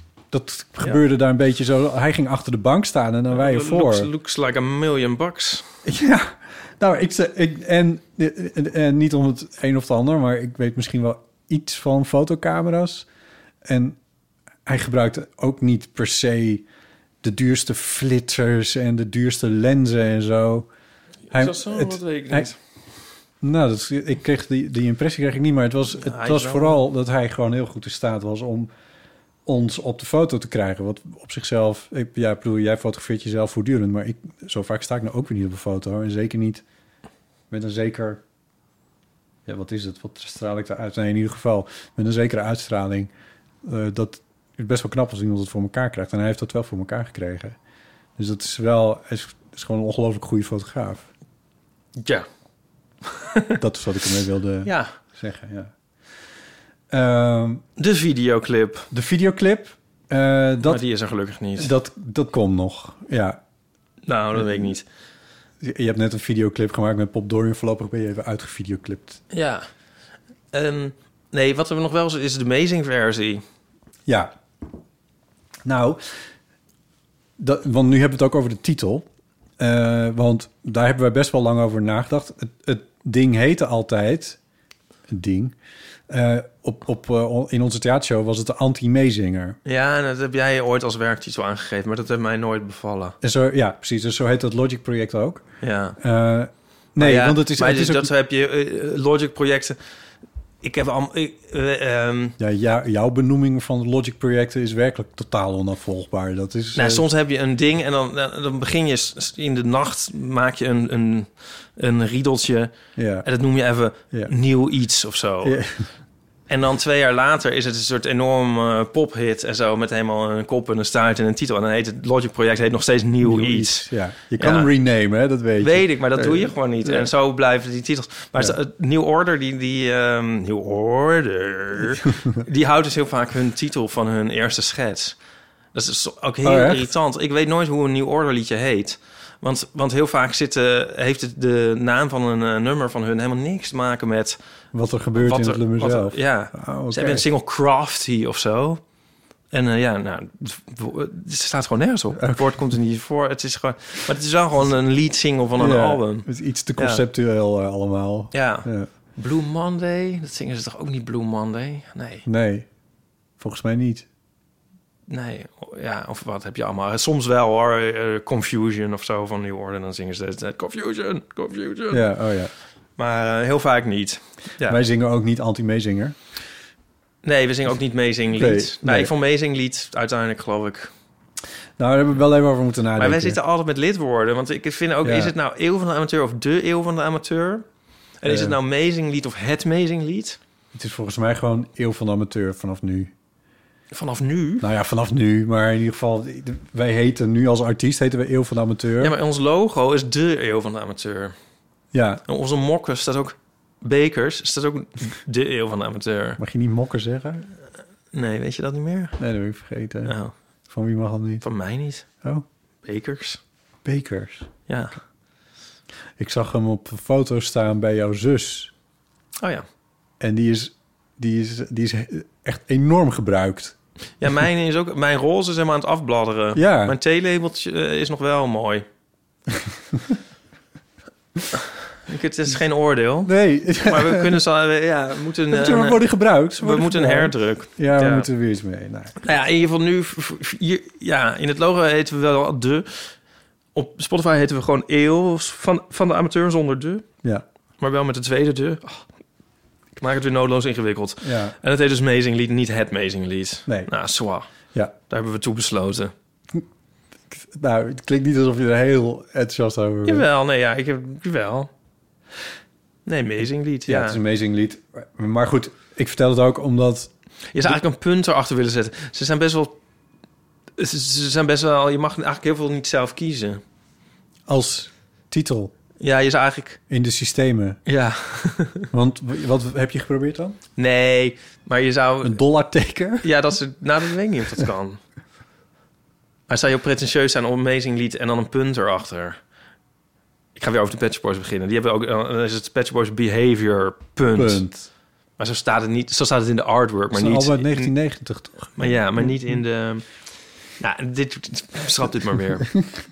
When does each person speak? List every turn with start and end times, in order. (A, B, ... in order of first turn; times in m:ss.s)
0:00.3-0:04.1 A
0:03.3-0:05.6 B
0:05.8-0:13.0 A
0:13.6-0:14.0 A
0:14.6-0:16.6 A
0:17.2-0:20.7 A
0:21.3-0:22.6 B
0:21.3-0:22.5 A
0:23.4-0:28.7 A
0:26.0-0:26.8 B
0:29.4-0:36.6 A
0:37.5-0:38.2 A
0:39.4-0:43.1 A
0:43.6-0:47.6 A
0:48.2-0:51.0 A
0:52.0-0:52.2 B
0:53.0-0:53.6 B
0:53.6-0:55.7 A
0:54.6-0:54.9 B
0:56.9-0:57.6 A
0:57.8-0:58.9 B
0:58.9-1:00.8 A
1:00.6-1:01.7 B
1:01.6-1:03.4 A
1:04.1-1:04.8 B
1:05.6-1:09.2 A
1:09.3-1:09.7 B
1:10.5-1:13.4 B
1:14.0-1:14.3 A
1:15.6-1:16.0 A
1:17.4-1:19.1 A
1:19.6-1:24.4 A
1:25.1-1:25.6 A
1:26.1-1:29.6 A
1:29.6-1:33.2 B
1:33.2-1:35.4 A
1:35.6-1:36.0 B
1:36.0-1:38.1 A
1:37.0-1:39.8 B
1:40.6-1:42.3 B
1:42.4-1:47.0 A
1:46.7-1:52.7 B
1:53.0-1:53.3 A
1:53.2-1:55.6 B
1:55.4-1:55.8 A
1:56.5-2:04.7 B
2:03.2-2:07.1 A
2:05.6-2:15.2 B
2:15.7-2:24.4 B
2:16.4-2:16.9 A
2:24.7-2:27.2 A
2:25.2-2:28.8 B
2:29.5-2:37.0 B
2:32.1-2:32.5 A
2:35.6-2:38.9 A
2:38.3-2:42.2 B
2:42.2-2:42.7 A
2:43.4-2:44.1 A
2:45.1-2:52.0 B
2:51.9-2:52.5 A
2:53.0-2:54.8 B
2:54.6-2:56.2 A
2:57.2-3:00.9 B
2:58.3-2:59.1 A
3:01.8-3:03.4 A
3:03.0-3:07.6 B
3:05.0-3:05.3 A
3:08.2-3:10.4 B
3:08.2-3:08.6 A
3:10.7-3:13.1 A
3:13.9-3:14.7 B
3:14.6-3:19.1 A
3:19.0-3:21.3 B
3:21.9-3:22.2 A
3:22.3-3:26.4 B
3:26.4-3:27.5 A
3:28.1-3:29.2 B
3:29.2-3:30.2 A
3:30.0-3:30.3 B
3:30.7-3:31.4 A
3:31.4-3:32.0 B
3:32.8-3:33.4 B
3:33.8-3:34.5 A
3:34.7-3:35.0 B
3:36.2-3:38.7 A
3:39.4-3:39.6 B
3:40.2-3:43.7 A
3:44.2-3:48.8 B
3:46.5-3:47.0 A
3:49.6-3:50.2 A
3:52.0-3:56.0 B
3:53.2-3:54.4 A
3:55.5-3:59.2 A
3:56.6-3:58.3 B
3:59.2-4:03.1 B
4:03.7-4:07.1 B
4:07.8-4:09.0 B
4:10.0-4:14.5 B
4:11.2-4:11.6 A
4:15.1-4:16.1 B
4:17.3-4:20.3 A
4:20.0-4:21.7 B
4:23.0-4:24.2 B
4:23.8-4:27.1 A
4:27.5-4:29.8 B
4:30.8-4:33.6 B
4:34.5-4:35.7 A
4:36.0-4:36.8 B
4:36.9-4:37.8 A
4:37.9-4:38.9 B
4:38.9-4:40.6 A
4:40.8-4:42.4 B
4:42.2-4:43.3 A
4:43.2-4:45.0 B
4:46.5-4:49.4 B
4:50.5-4:54.6 B
4:54.3-4:54.9 A
4:55.4-4:57.9 B
4:57.1-4:59.3 A
4:58.7-5:00.0 B
5:00.8-5:02.7 B